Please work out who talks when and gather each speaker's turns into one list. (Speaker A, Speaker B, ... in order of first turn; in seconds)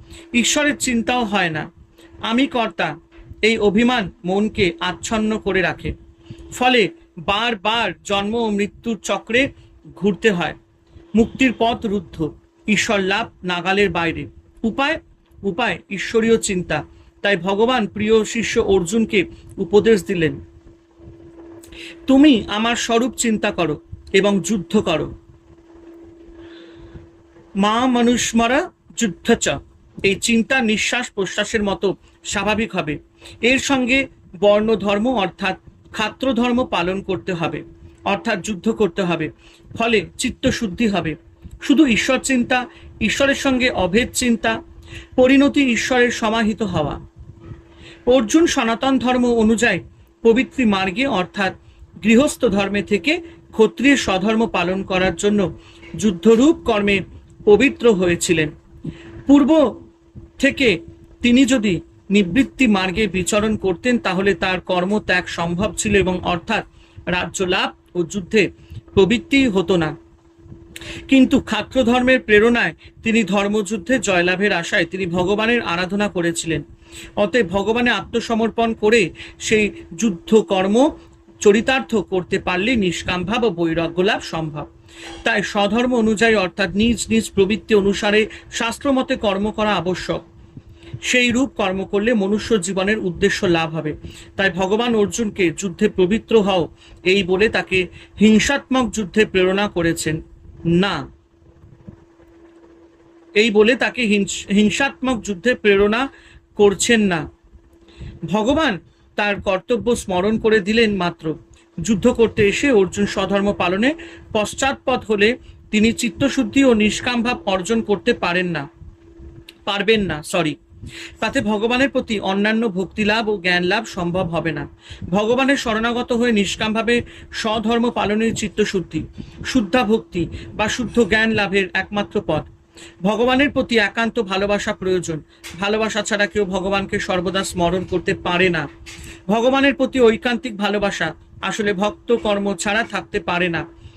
Speaker A: 0.3-1.7, 2.3-2.9, 3.4-5.9, 6.5-10.6, 11.2-20.4, 22.1-25.1, 27.6-44.5, 45.1-47.0, 48.1-55.5, 56.0-58.5, 59.3-59.6, 60.4-69.9, 71.1-76.6, 77.2-80.9, 81.4-84.7, 85.2-90.2, 91.0-100.2, 100.8-101.0, 103.4-106.0, 106.6-107.2, 108.3-111.3, 111.8-118.7, 119.7-120.6, 121.2-132.5, 133.0-138.7, 139.3-143.6